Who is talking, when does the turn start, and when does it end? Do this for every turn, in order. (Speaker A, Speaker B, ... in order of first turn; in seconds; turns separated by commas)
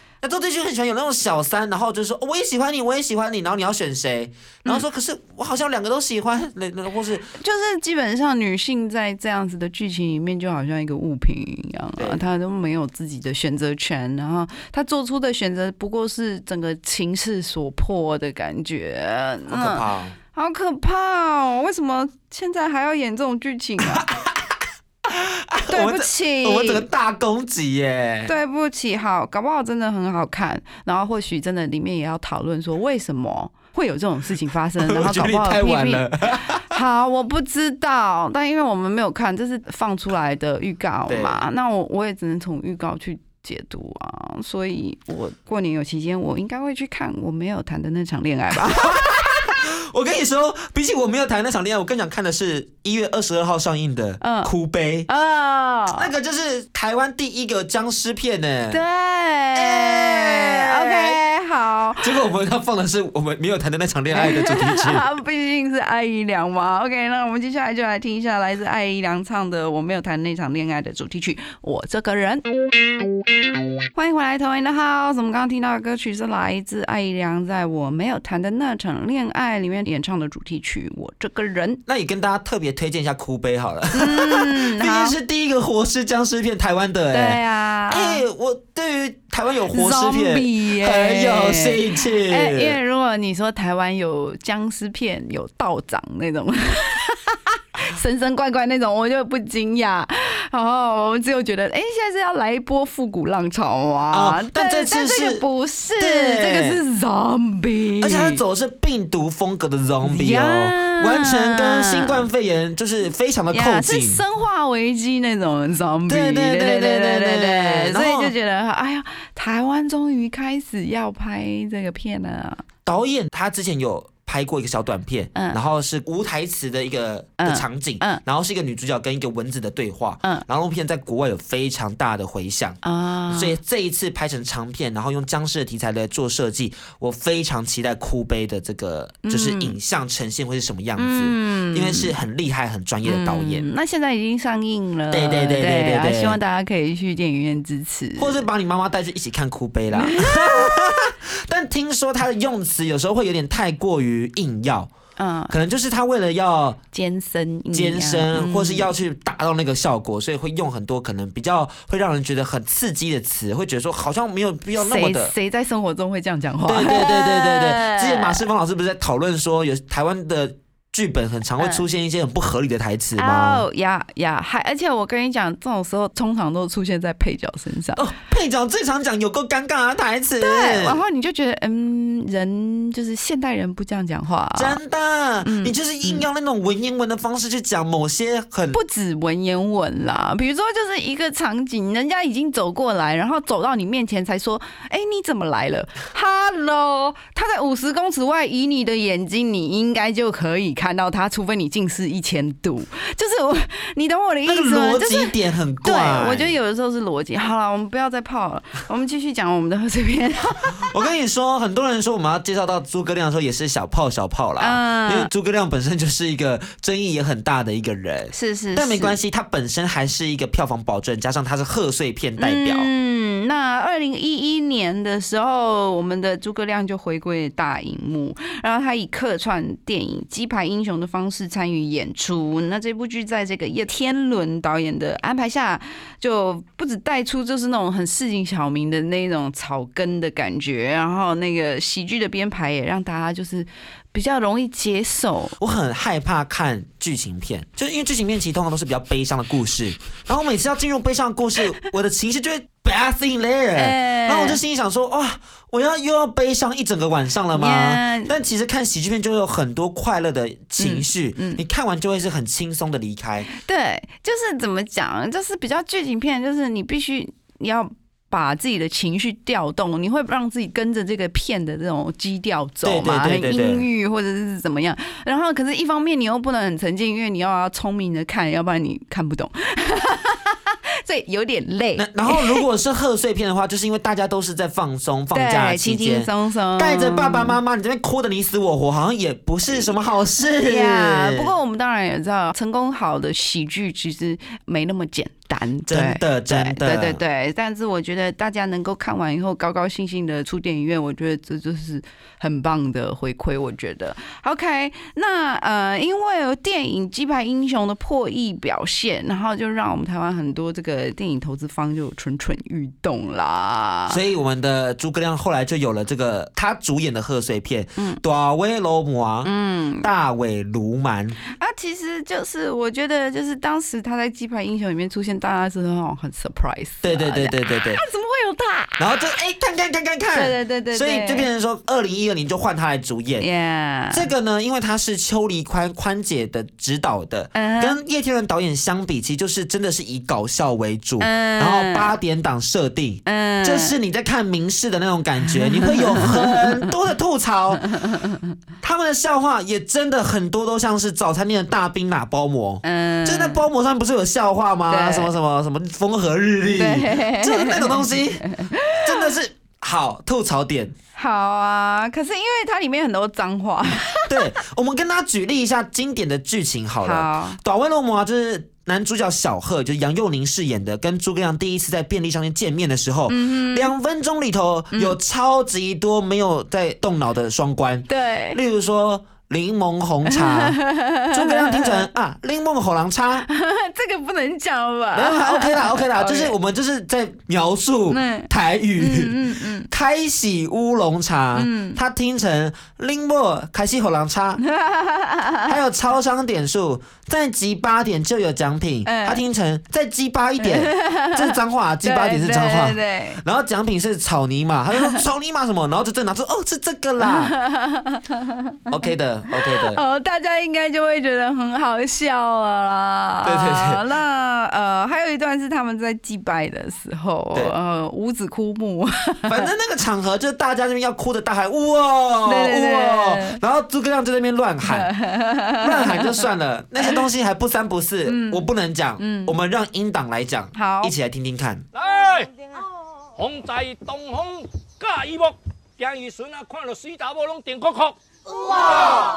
Speaker A: 0.2-7.3, Speaker B: 7.4-24.0, Speaker A: 12.0-12.2, Speaker A: 19.5-20.1, Speaker A: 23.8-24.5, Speaker A: 25.1-28.3, Speaker B: 25.7-26.9, Speaker B: 28.2-36.0, Speaker A: 34.8-36.7, Speaker B: 36.7-49.4, Speaker A: 41.1-41.4, Speaker A: 48.7-55.1, Speaker B: 54.2-54.5, Speaker B: 55.1-56.1, Speaker A: 55.9-58.8, Speaker B: 58.7-62.1, Speaker A: 59.5-61.2, Speaker A: 62.0-65.1, Speaker B: 64.1-72.5, Speaker B: 73.9-81.8, Speaker A: 81.9-92.8, Speaker B: 83.9-85.2, Speaker B: 87.1-88.2, Speaker B: 89.7-108.4, Speaker A: 104.1-105.4, Speaker A: 106.0-106.8, Speaker A: 108.0-114.2, Speaker B: 110.0-112.2, Speaker B: 113.5-122.6, Speaker A: 116.1-118.3, Speaker A: 122.8-132.8, Speaker B: 127.4-128.2, Speaker B: 132.8-133.6, Speaker A: 133.3-143.7, Speaker B: 139.2-139.8, Speaker B: 141.0-142.1, Speaker B: 143.0-148.4, Speaker A: 145.1-146.4, Speaker A: 148.2-154.9, Speaker B: 149.9-150.8, Speaker B: 155.2-155.5, Speaker A: 155.5-156.8, Speaker B: 156.9-158.9, Speaker A: 157.7-165.3, Speaker B: 164.8-168.4, Speaker A: 166.7-173.7, Speaker B: 173.2-178.1, Speaker A: 178.0-181.0, Speaker B: 180.4-184.8, Speaker A: 184.6-188.8, Speaker B: 185.4-186.2, Speaker B: 188.7-210.8, Speaker A: 204.4-206.5, Speaker A: 210.8-222.9, Speaker B: 214.6-215.3, Speaker B: 218.3-219.2, Speaker B: 222.4-245.5, Speaker A: 245.6-263.5, Speaker B: 253.8-254.6, Speaker B: 257.5-258.3, Speaker B: 260.8-261.6, Speaker B: 263.6-282.6, Speaker A: 272.8-273.8, Speaker A: 281.9-291.5, Speaker B: 285.3-287.6, Speaker B: 290.6-314.2, Speaker A: 295.9-297.2, Speaker A: 314.1-321.4, Speaker B: 319.4-320.1, Speaker B: 321.6-329.0, Speaker A: 327.0-328.0, Speaker A: 329.0-333.4, Speaker B: 330.3-331.5, Speaker B: 333.4-334.3, Speaker A: 334.1-348.0, Speaker B: 337.5-338.0, Speaker B: 341.2-342.1, Speaker B: 343.2-343.9, Speaker B: 345.6-346.5, Speaker A: 348.8-358.5, Speaker B: 352.8-353.6, Speaker B: 354.9-355.3, Speaker B: 356.7-359.0, Speaker A: 359.0-360.9, Speaker B: 361.1-364.3, Speaker A: 364.3-380.8, Speaker B: 367.0-367.6, Speaker B: 373.3-373.9, Speaker B: 378.1-378.6, Speaker B: 380.6-381.9, Speaker A: 381.3-383.4, Speaker B: 383.5-386.5, Speaker A: 385.1-394.6, Speaker B: 388.1-388.5, Speaker B: 389.0-389.9, Speaker B: 391.5-392.0, Speaker B: 394.8-395.6, Speaker A: 395.6-407.5, Speaker B: 399.1-399.4, Speaker B: 400.7-401.5, Speaker B: 402.0-403.4, Speaker B: 407.4-408.3, Speaker A: 408.9-410.0, Speaker B: 409.8-419.6, Speaker A: 413.4-414.0, Speaker A: 419.5-425.1, Speaker B: 422.4-423.6, Speaker B: 424.9-426.2, Speaker A: 425.8-431.9, Speaker B: 428.2-428.6, Speaker B: 429.2-429.5, Speaker B: 430.7-431.1, Speaker C: 431.9-432.5, Speaker C: 433.4-438.1, Speaker C: 438.8-439.2